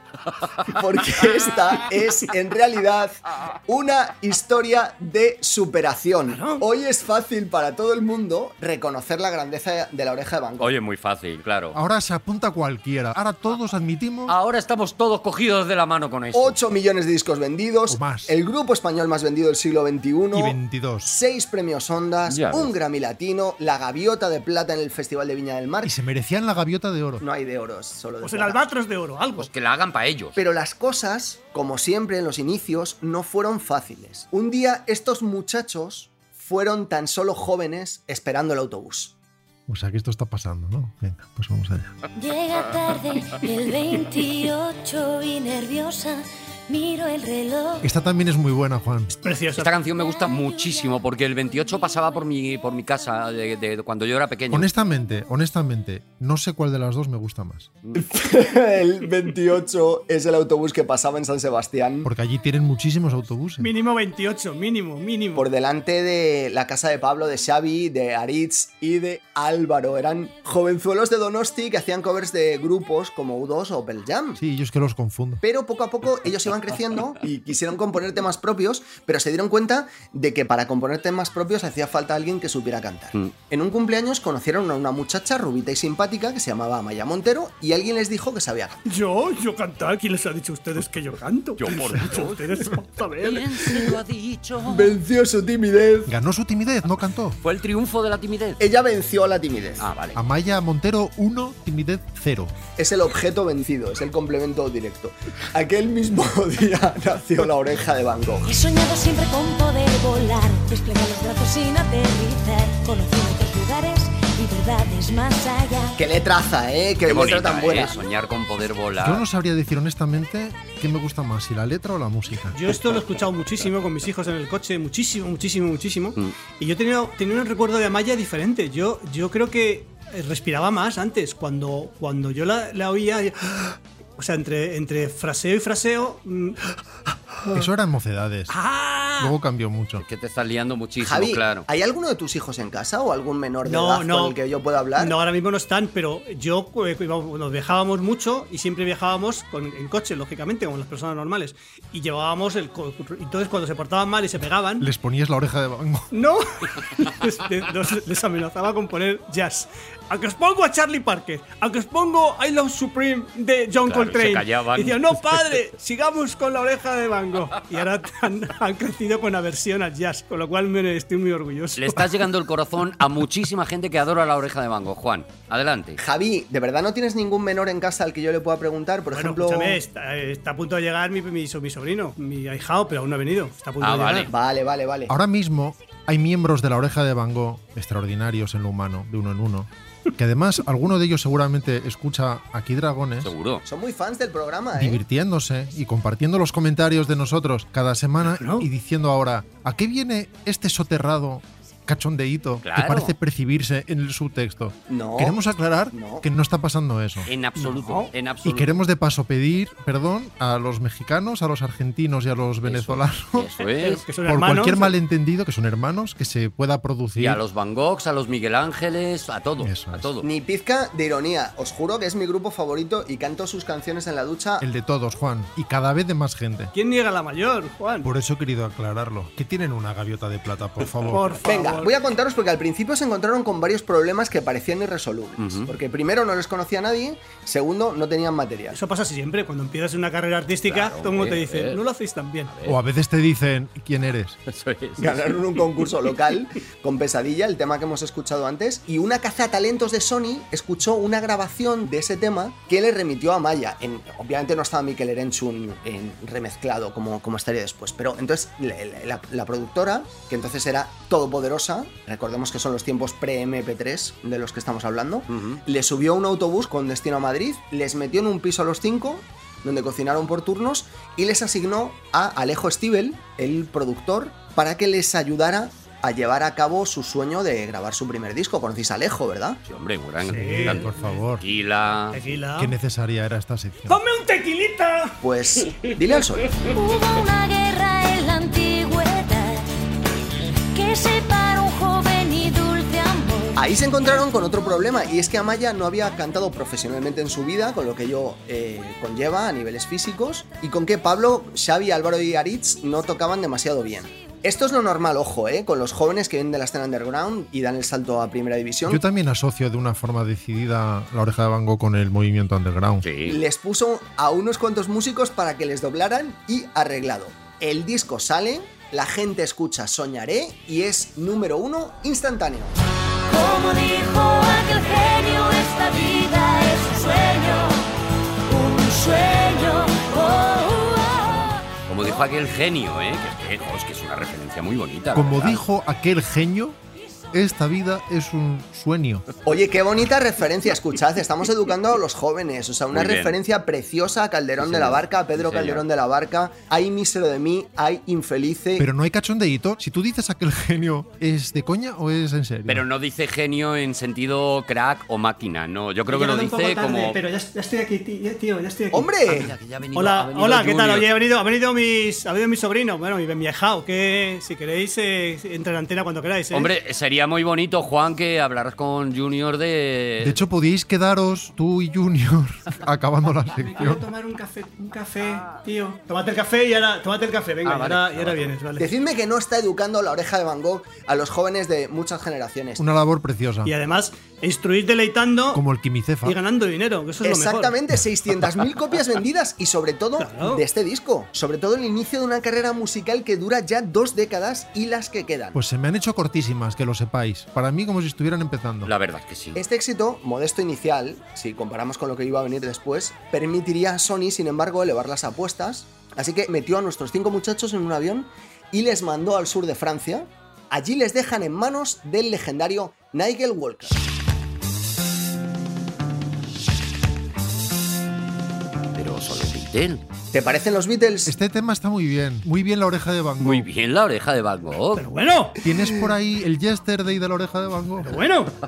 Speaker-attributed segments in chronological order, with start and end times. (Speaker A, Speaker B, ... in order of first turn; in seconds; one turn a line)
Speaker A: 0.6-3.2
Speaker A: 3.7-10.7
Speaker B: 6.3-6.6
Speaker C: 10.6-11.8
Speaker D: 11.7-14.3
Speaker C: 14.3-16.6
Speaker A: 16.3-25.9
Speaker D: 17.9-18.3
Speaker D: 20.3-21.1
Speaker C: 22.3-22.7
Speaker D: 25.8-27.2
Speaker A: 27.2-28.6
Speaker B: 28.2-29.5
Speaker C: 29.4-30.4
Speaker A: 30.4-39.1
Speaker D: 39.7-42.0
Speaker E: 42.2-47.9
Speaker D: 47.8-49.1
Speaker B: 49.2-49.7
Speaker C: 49.6-54.7
Speaker E: 50.0-51.0
Speaker D: 54.5-57.7
Speaker A: 58.0-62.1
Speaker D: 62.0-63.7
Speaker B: 63.6-65.5
Speaker A: 65.4-74.4
Speaker D: 74.4-75.4
Speaker A: 75.4-88.8
Speaker B: 88.9-93.9
Speaker C: 91.6-95.0
Speaker A: 94.7-96.1
Speaker D: 96.1-97.4
Speaker C: 97.4-98.6
Speaker A: 98.6-99.9
Speaker C: 99.8-100.2
Speaker D: 100.2-102.5
Speaker A: 102.8-108.5
Speaker E: 108.5-116.0
Speaker A: 116.0-118.0
Speaker C: 117.1-119.2
Speaker D: 119.0-122.6
Speaker B: 122.5-136.6
Speaker D: 137.5-138.6
Speaker B: 138.5-139.4
Speaker D: 139.2-140.0
Speaker C: 140.0-141.7
Speaker A: 141.0-145.2
Speaker B: 143.6-144.4
Speaker B: 145.0-154.9
Speaker D: 154.8-156.1
Speaker B: 156.1-172.0
Speaker C: 163.9-165.4
Speaker C: 171.8-176.0
Speaker A: 176.0-179.8
Speaker B: 179.1-184.3
Speaker C: 183.8-184.3
Speaker A: 184.3-185.1
Speaker D: 185.1-193.3
Speaker C: 193.2-193.6
Speaker A: 193.7-195.0
Speaker D: 194.8-207.3
Speaker B: 198.3-198.7
Speaker C: 202.6-203.1
Speaker A: 204.9-205.4
Speaker A: 205.9-206.2
Speaker C: 207.3-208.8
Speaker B: 207.6-208.1
Speaker D: 208.4-213.5
Speaker C: 212.7-214.0
Speaker B: 213.6-215.0
Speaker D: 214.3-217.4
Speaker C: 217.2-220.3
Speaker D: 219.6-220.1
Speaker A: 220.2-224.7
Speaker D: 224.6-226.7
Speaker B: 226.7-228.1
Speaker D: 228.0-231.4
Speaker B: 231.1-231.9
Speaker A: 231.5-238.8
Speaker C: 235.4-235.7
Speaker B: 238.7-242.5
Speaker C: 240.7-241.8
Speaker C: 242.5-242.8
Speaker D: 242.7-244.4
Speaker C: 244.5-245.4
Speaker A: 245.0-279.6
Speaker C: 265.3-265.6
Speaker C: 279.7-282.2
Speaker D: 280.2-281.4
Speaker B: 280.3-281.0
Speaker B: 282.1-282.8
Speaker D: 282.6-284.0
Speaker B: 283.9-285.2
Speaker A: 285.2-286.6
Speaker E: 286.6-289.6
Speaker E: 290.7-293.6
Speaker A: 293.6-309.0
Speaker D: 308.9-313.1
Speaker C: 313.0-313.4
Speaker A: 313.3-322.8
Speaker E: 323.3-327.8
Speaker E: 328.5-331.6
Speaker C: 331.9-335.6
Speaker D: 335.1-336.8
Speaker D: 337.3-339.2
Speaker A: 339.5-348.9
Speaker C: 342.9-343.4
Speaker C: 344.6-345.8
Speaker D: 348.8-352.8
Speaker C: 352.7-357.2
Speaker B: 356.1-366.7
Speaker A: 358.9-359.5
Speaker C: 359.3-361.1
Speaker C: 366.5-370.4
Speaker D: 370.2-374.1
Speaker B: 373.6-378.9
Speaker C: 377.6-378.5
Speaker A: 378.8-382.8
Speaker D: 382.8-383.7
Speaker B: 383.6-385.6
Speaker D: 385.5-386.4
Speaker B: 386.2-387.8
Speaker A: 387.2-395.6
Speaker B: 390.2-390.6
Speaker D: 395.6-398.9
Speaker C: 398.9-399.6
Speaker A: 399.6-414.0
Speaker C: 418.9-420.0
Speaker A: 420.3-421.3
Speaker D: 421.3-423.7
Speaker C: 423.4-425.1
Speaker B: 425.0-425.7
Speaker D: 425.6-428.2
Speaker B: 428.1-428.5